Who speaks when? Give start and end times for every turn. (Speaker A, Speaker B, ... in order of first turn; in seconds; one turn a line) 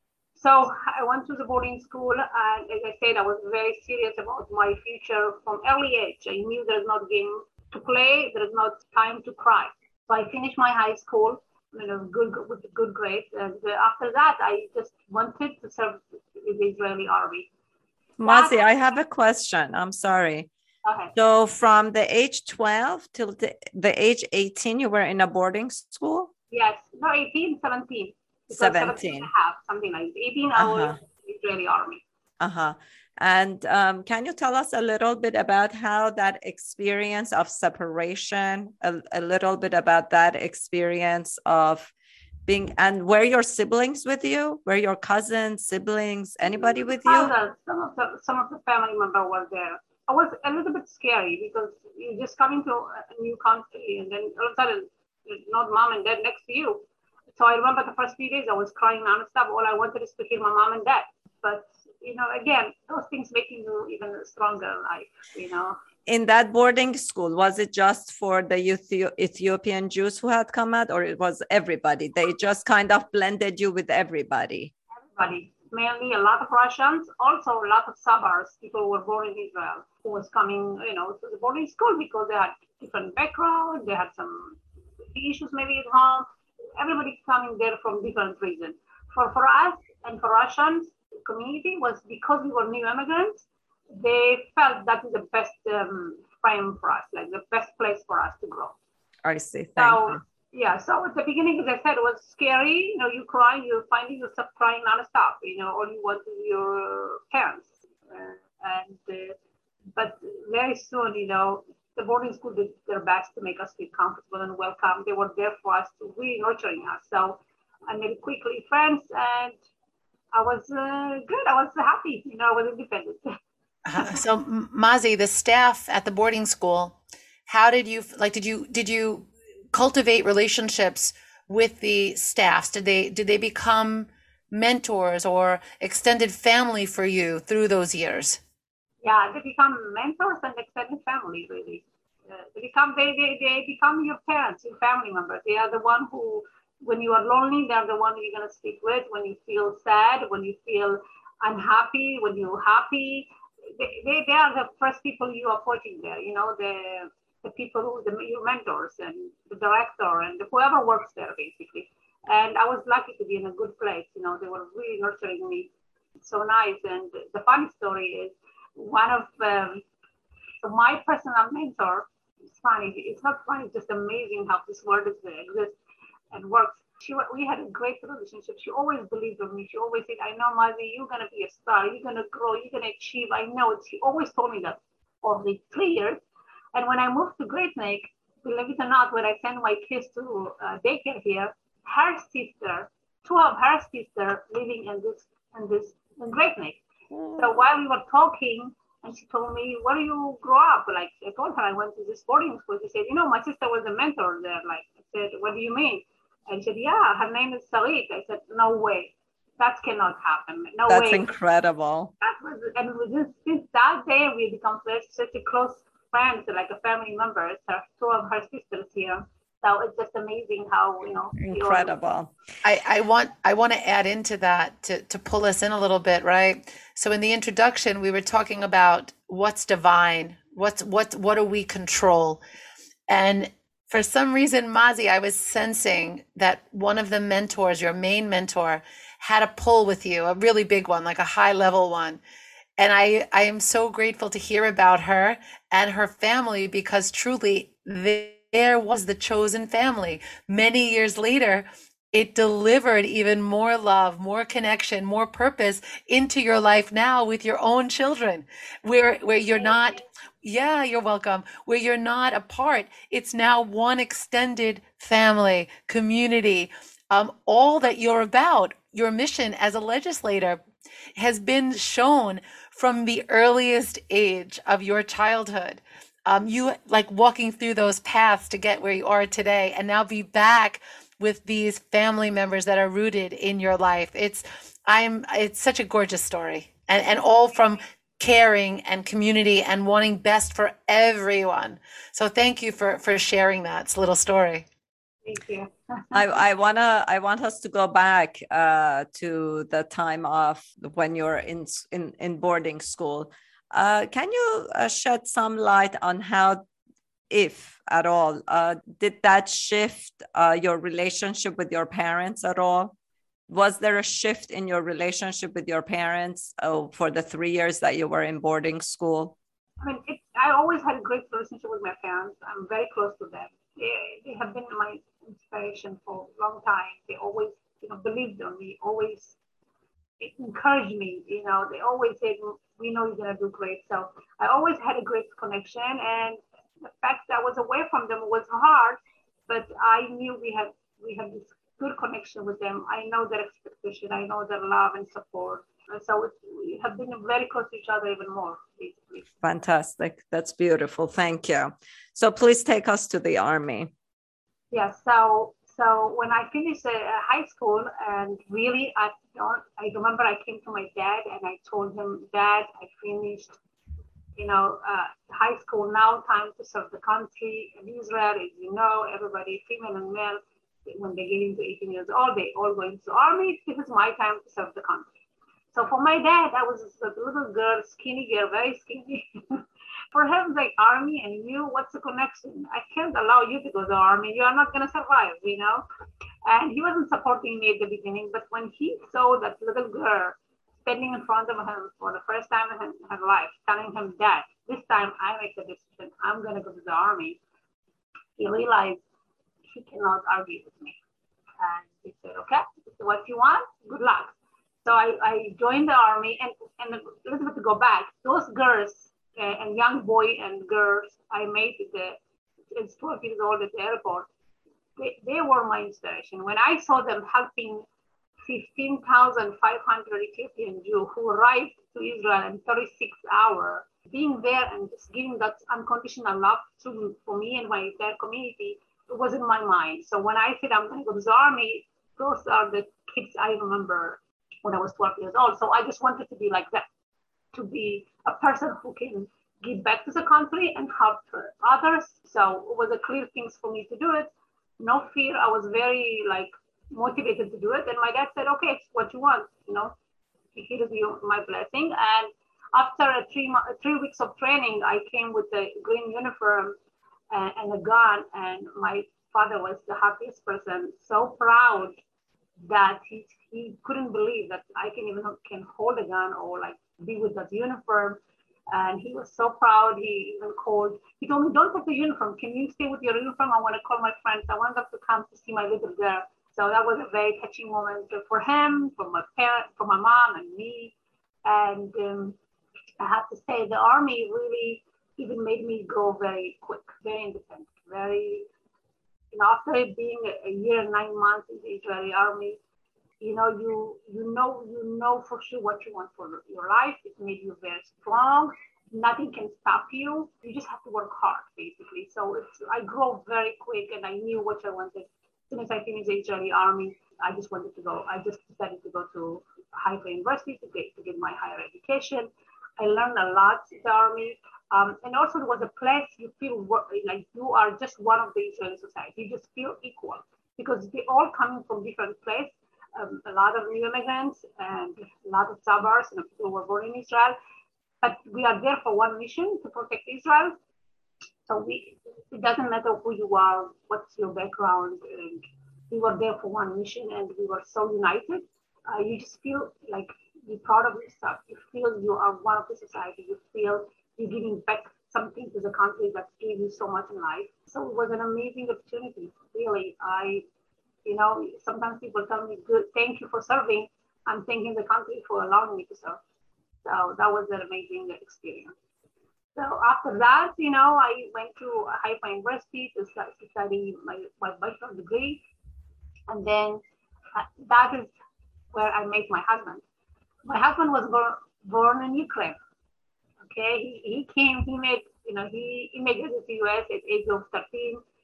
Speaker A: 0.3-17.5
Speaker B: 18.2-20.5
Speaker A: 18.2-18.7
Speaker A: 20.9-21.1
Speaker B: 21.2-26.3
Speaker A: 26.5-32.0
Speaker B: 28.5-29.3
Speaker B: 30.6-31.0
Speaker B: 32.4-41.9
Speaker B: 42.5-47.3
Speaker A: 46.5-56.8
Speaker A: 57.4-65.8
Speaker B: 66.1-74.7
Speaker A: 75.2-84.6
Speaker A: 85.2-86.3
Speaker A: 86.8-98.8
Speaker B: 99.2-100.2
Speaker A: 99.8-109.4
Speaker A: 110.0-119.6
Speaker A: 120.3-123.4
Speaker C: 123.9-138.4
Speaker A: 139.0-169.8
Speaker A: 170.6-175.8
Speaker A: 176.3-186.2
Speaker A: 186.7-196.8
Speaker B: 197.1-197.5
Speaker A: 197.3-211.3
Speaker B: 210.9-212.1
Speaker A: 212.2-221.9
Speaker B: 221.4-222.3
Speaker C: 222.6-232.4
Speaker C: 233.1-242.2
Speaker C: 242.8-270.6
Speaker A: 259.5-259.9
Speaker C: 271.1-294.6
Speaker A: 295.2-296.2
Speaker B: 296.1-306.6
Speaker B: 307.3-312.9
Speaker B: 313.5-319.4
Speaker A: 319.8-329.4
Speaker A: 330.2-349.3
Speaker B: 349.4-353.9
Speaker A: 354.7-363.6
Speaker A: 364.4-375.1
Speaker A: 375.7-385.9
Speaker A: 386.5-397.4
Speaker A: 398.4-399.0
Speaker A: 399.7-401.0
Speaker A: 401.6-412.2
Speaker A: 412.7-414.3
Speaker A: 415.0-417.9
Speaker A: 418.4-436.9
Speaker A: 437.5-449.9
Speaker A: 450.5-456.8
Speaker A: 457.3-461.9
Speaker A: 462.6-480.9
Speaker A: 481.4-482.4
Speaker A: 483.0-488.5
Speaker A: 489.3-492.6
Speaker A: 493.2-527.4
Speaker A: 528.0-530.6
Speaker A: 531.5-550.4
Speaker A: 551.0-556.2
Speaker A: 556.8-558.7
Speaker A: 559.6-565.4
Speaker A: 566.3-566.8
Speaker A: 567.4-568.1
Speaker A: 568.7-569.8
Speaker A: 570.5-572.6
Speaker A: 573.5-578.0